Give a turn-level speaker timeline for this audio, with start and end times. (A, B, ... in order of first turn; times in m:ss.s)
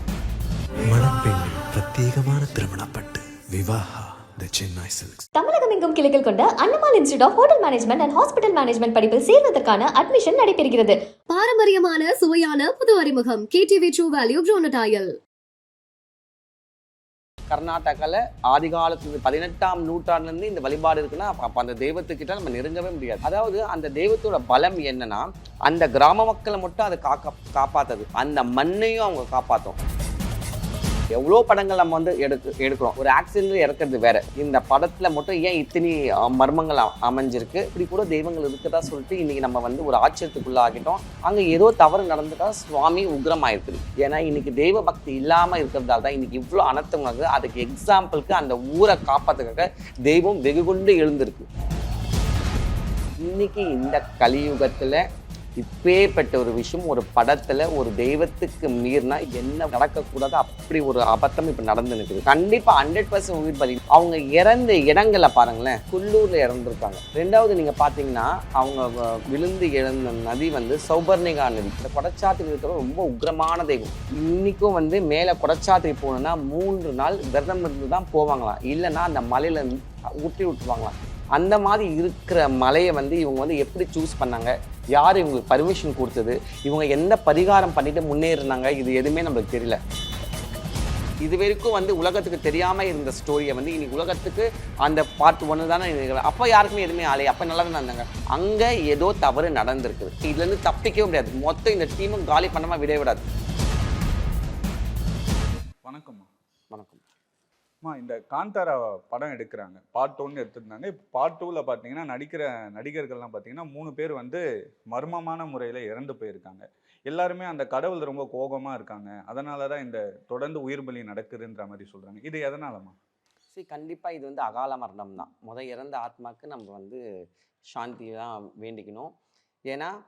0:00.9-0:05.2 A
0:05.4-0:11.0 B
0:11.3-0:15.1 C
0:17.5-0:29.8 D
0:31.1-0:51.5 D
0:53.2-0:55.0 D
0:55.6-1:29.8 D
1:31.2-1:43.3 D
1:45.8-1:46.3 E
1:46.7-1:47.0 D
1:47.8-2:03.0 E
2:03.5-2:07.0 D
2:07.7-2:09.1 D